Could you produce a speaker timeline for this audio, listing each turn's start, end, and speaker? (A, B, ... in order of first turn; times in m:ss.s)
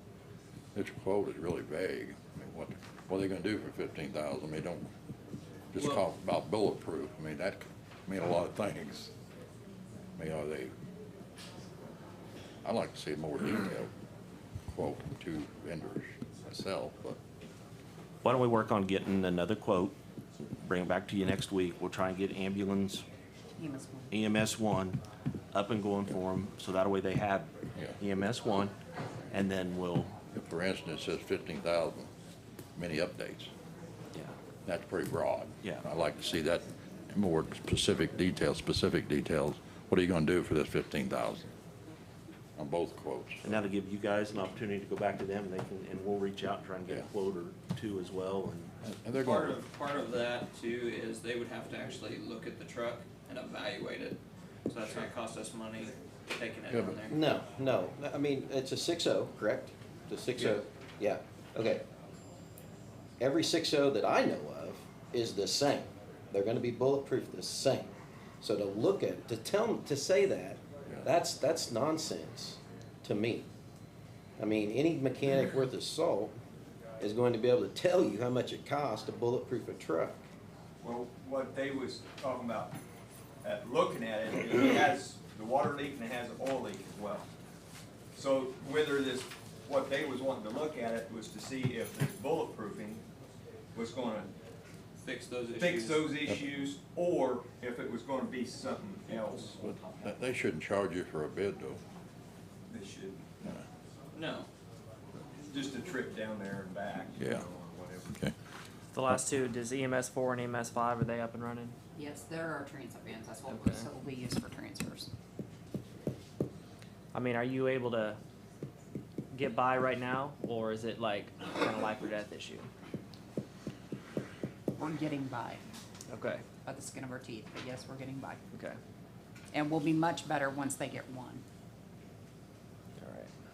0:00.8-0:04.9 A
0:05.7-0:09.1 A
0:05.8-0:06.0 B
0:10.2-0:10.7 A
0:12.6-0:13.9 A
0:14.7-0:17.2 A
0:18.2-0:20.0 C
0:20.5-0:23.1 C
0:23.6-0:24.1 D
0:24.1-0:25.0 C
0:25.5-0:28.8 C
0:29.3-0:30.2 C
0:30.3-0:32.1 A
0:32.8-0:33.5 A
0:34.6-0:41.5 A
0:42.6-0:43.6 A
0:43.4-0:48.7 C
0:48.8-0:49.6 A
0:49.2-0:54.2 B
0:54.7-0:57.2 B
0:56.7-0:57.0 A
0:57.1-1:01.8 E
1:03.2-1:13.5 E
1:14.4-1:16.4 E
1:17.0-1:20.3 E
1:20.8-1:22.8 F
1:23.4-1:27.3 F
1:28.2-1:33.0 F
1:33.7-1:34.3 F
1:35.0-1:36.1 B
1:35.6-1:39.6 F
1:39.1-1:41.8 A
1:42.7-1:43.2 F
1:44.1-1:44.5 B
1:45.5-1:48.1 F
1:47.2-1:47.5 A
1:48.9-1:51.8 G
1:52.0-1:55.1 D
1:53.5-1:53.9 G
1:57.1-1:58.2 G
1:59.3-2:02.7 G
2:04.8-2:05.6 D
2:06.1-2:06.4 G
2:06.6-2:08.4 D
2:08.5-2:08.8 G
2:09.5-2:11.4 D
2:13.0-2:13.3 G